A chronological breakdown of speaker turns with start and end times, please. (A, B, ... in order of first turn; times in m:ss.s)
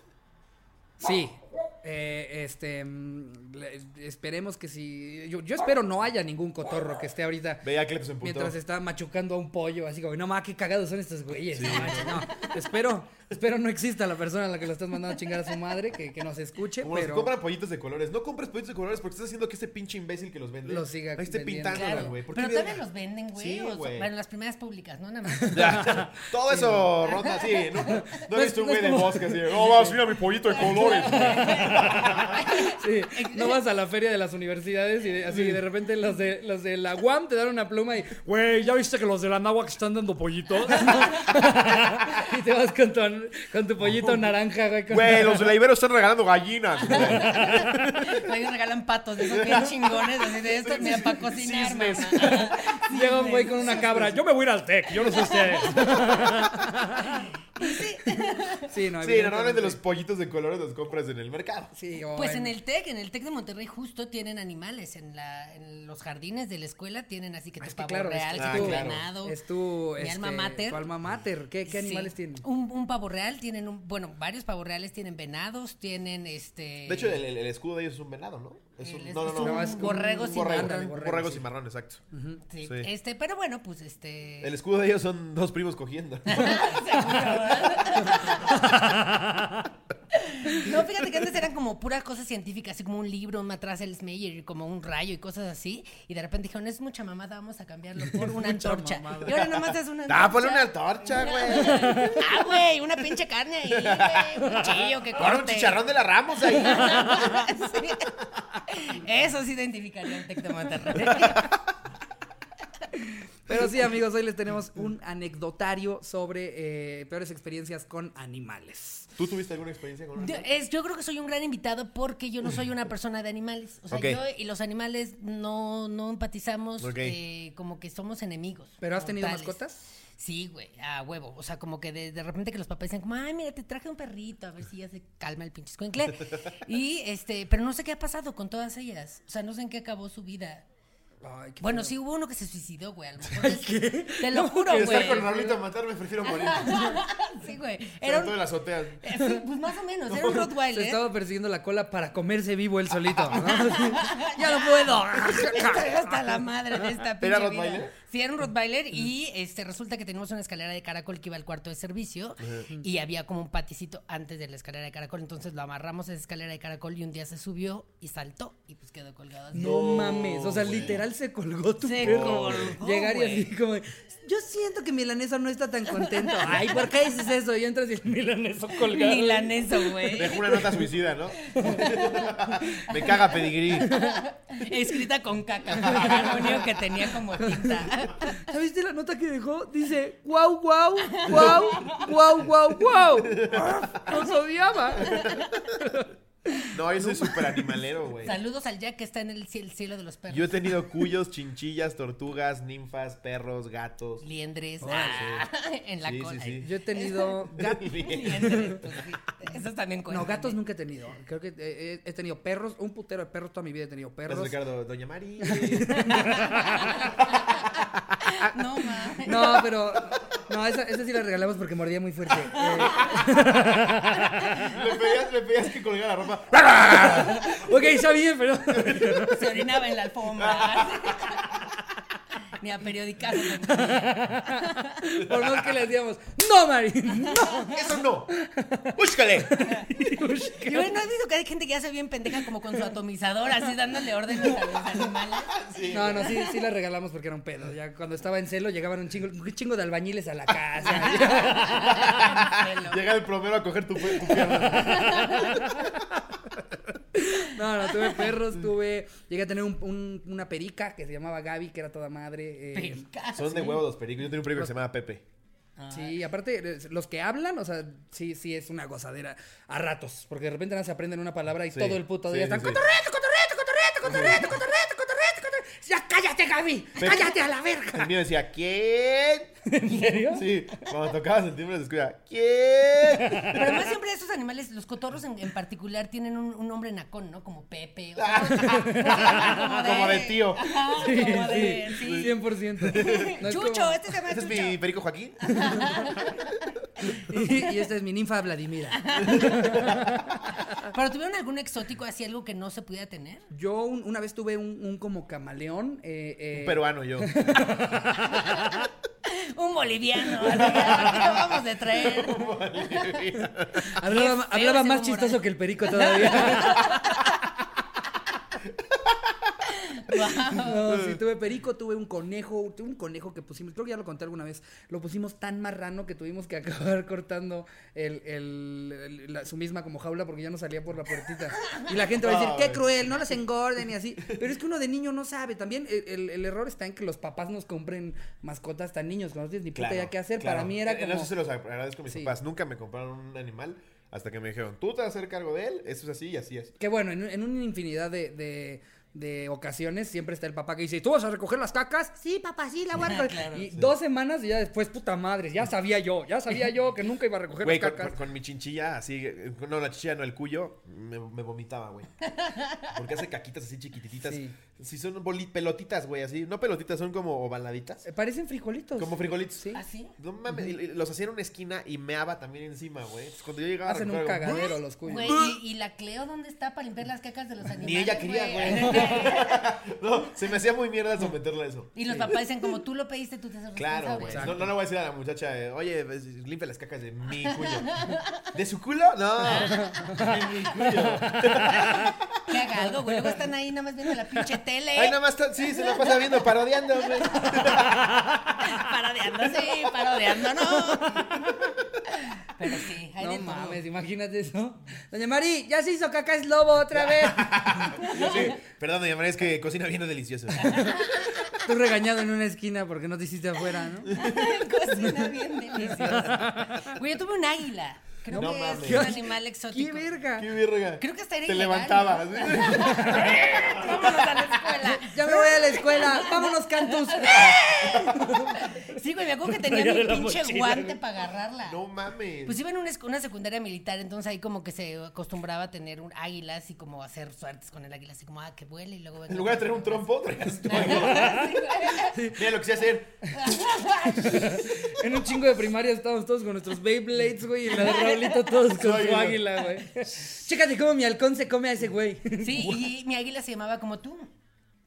0:01.0-0:07.7 A
0:07.6-0:08.6 B
0:08.2-0:17.3 A
0:11.5-0:12.5 B
0:16.8-0:22.8 B
0:20.6-0:22.1 A
0:21.7-0:25.9 C
0:23.3-0:24.1 B
0:25.4-0:27.1 A
0:25.5-0:32.4 B
0:27.0-0:28.1 C
0:27.8-0:30.0 A
0:30.4-0:33.6 C
0:30.6-0:45.5 A
0:35.3-0:35.6 B
0:43.8-0:44.3 B
0:44.9-0:47.9 B
0:46.8-0:54.0 C
0:46.9-0:48.2 A
0:49.2-0:52.7 B
0:52.1-0:57.3 A
0:53.5-0:54.2 B
0:55.0-0:56.2 C
0:57.6-0:58.7 C
0:58.7-0:59.8 A
0:59.0-1:01.7 B
1:01.7-1:02.5 A
1:02.1-1:09.4 C
1:07.6-1:12.4 A
1:08.4-1:09.1 B
1:10.0-1:10.8 C
1:11.7-1:17.2 C
1:16.8-1:22.0 B
1:18.8-1:20.8 C
1:19.3-1:21.4 A
1:22.1-1:22.4 A
1:22.5-1:24.5 C
1:22.6-1:22.9 B
1:24.4-1:28.3 B
1:26.3-1:28.7 C
1:28.4-1:29.7 A
1:30.1-1:45.8 C
1:38.0-1:39.6 A
1:40.1-1:42.4 B
1:41.7-1:42.2 A
1:43.7-1:47.4 B
1:46.4-1:51.5 C
1:51.1-1:51.4 B
1:52.9-1:59.1 A
1:59.2-2:00.5 B
2:00.2-2:09.5 C
2:03.9-2:04.2 B
2:06.8-2:07.2 B
2:08.8-2:09.8 A
2:10.2-2:20.7 C
2:21.2-2:21.9 A
2:21.6-2:25.3 C
2:23.3-2:25.6 A
2:24.7-2:27.0 B
2:26.2-2:28.5 C
2:28.0-2:29.0 B
2:29.0-2:31.0 C
2:29.1-2:29.4 A
2:30.1-2:30.5 B
2:30.7-2:36.3 A
2:33.0-2:33.6 B
2:33.4-2:49.8 C
2:37.2-2:37.9 B
2:42.4-2:42.7 B
2:49.5-3:00.4 A
2:49.5-2:51.0 B
2:51.8-2:53.5 C
2:52.0-2:52.8 B
2:55.9-2:57.1 C
2:58.7-3:00.9 C
3:00.1-3:03.9 B
3:01.4-3:02.4 C
3:01.6-3:02.9 A
3:02.9-3:08.3 C
3:03.8-3:04.2 A
3:05.8-3:06.7 B
3:05.8-3:06.3 A
3:07.4-3:17.6 A
3:11.1-3:12.2 C
3:11.3-3:11.7 B
3:13.2-3:14.2 B
3:14.9-3:15.9 B
3:15.1-3:15.6 C
3:16.7-3:18.3 B
3:18.2-3:21.0 C
3:20.3-3:24.2 B
3:24.2-3:30.6 C
3:24.8-3:25.3 A
3:25.1-3:25.5 B
3:26.0-3:26.7 B
3:26.6-3:28.8 A
3:27.5-3:28.6 B
3:30.1-3:34.6 A
3:34.3-3:36.3 B
3:35.4-3:37.1 A
3:36.1-3:37.7 C
3:38.2-3:39.7 C
3:39.2-3:44.7 A
3:42.6-3:43.3 C
3:44.3-3:44.7 C
3:44.6-3:47.7 B
3:46.6-3:49.5 A
3:48.7-3:49.5 B
3:49.2-3:51.6 C
3:50.3-3:51.8 B
3:52.5-3:55.0 C
3:53.6-4:00.9 A
3:55.2-3:55.7 B
3:57.3-3:57.6 C
3:57.5-3:58.3 B
3:58.9-3:59.8 B
4:00.6-4:06.3 C
4:02.4-4:02.9 A
4:04.4-4:05.0 A
4:05.5-4:06.4 B
4:05.9-4:12.3 A
4:10.8-4:13.1 C
4:11.7-4:16.7 B
4:14.2-4:15.6 C
4:15.0-4:16.1 A
4:17.1-4:23.0 A
4:17.9-4:18.3 C
4:22.7-4:23.8 C
4:23.3-4:25.2 B
4:25.8-4:26.2 C
4:25.9-4:38.1 A
4:31.7-4:32.8 B
4:34.0-4:34.6 B
4:37.0-4:37.4 B
4:37.9-4:39.5 B
4:39.6-4:40.9 A
4:40.3-4:43.8 B
4:43.0-4:43.6 A
4:43.5-4:52.4 C
4:48.2-4:53.4 B
4:48.4-4:50.1 A
4:50.9-4:54.0 A
4:52.9-4:54.8 C
4:54.2-4:56.5 B
4:55.4-4:56.6 C
4:55.5-4:55.9 A
4:57.0-5:00.9 A
4:57.3-4:57.7 C
4:58.9-4:59.8 C
4:59.3-5:00.0 B
5:00.7-5:03.5 C
5:03.5-5:08.9 A
5:06.5-5:07.4 B
5:08.3-5:08.6 C
5:09.2-5:12.5 C
5:10.4-5:13.9 B
5:13.7-5:17.2 A
5:14.0-5:17.2 C
5:18.6-5:19.6 B
5:19.7-5:20.9 C
5:20.5-5:41.3 A
5:20.9-5:21.2 B
5:32.1-5:33.1 B
5:39.7-5:46.7 B
5:42.1-5:42.3 A
5:46.8-5:58.2 A
5:53.0-5:53.7 C
5:57.6-6:02.1 B
6:02.2-6:03.0 C
6:02.9-6:08.0 B
6:04.2-6:04.6 A
6:08.0-6:09.8 A
6:09.0-6:14.7 B
6:09.7-6:10.1 C
6:13.9-6:15.4 A
6:14.4-6:19.7 C
6:15.2-6:15.6 B
6:17.7-6:22.4 B
6:21.9-6:24.7 C
6:23.8-6:27.9 B
6:24.3-6:24.6 A
6:27.4-6:28.5 C
6:28.5-6:32.5 B
6:29.4-6:30.2 C
6:29.5-6:32.1 A
6:32.5-6:37.9 C
6:33.0-6:33.4 A
6:34.9-6:38.1 B
6:37.4-6:38.6 A
6:38.6-6:41.7 C
6:40.6-6:41.6 A
6:42.4-6:43.8 C
6:43.2-6:48.4 A
6:46.9-6:50.9 B
6:48.0-6:48.6 C
6:50.6-6:50.9 A
6:50.6-6:51.6 C
6:51.6-6:54.2 A
6:54.1-7:00.2 C
6:54.1-6:54.6 B
6:55.8-6:56.9 A
6:58.3-6:59.2 B
6:58.4-7:00.5 A
7:00.4-7:05.4 B
7:01.0-7:11.8 C
7:02.7-7:03.5 A
7:05.0-7:08.7 A
7:07.5-7:08.3 B
7:09.4-7:11.0 A
7:11.6-7:12.6 B
7:12.4-7:20.0 C
7:19.3-7:21.5 B
7:20.6-7:22.2 C
7:21.1-7:22.4 A
7:22.3-7:23.2 B
7:23.3-7:24.6 C
7:24.0-7:32.8 A
7:27.7-7:28.6 C
7:28.7-7:29.5 B
7:32.4-7:34.3 C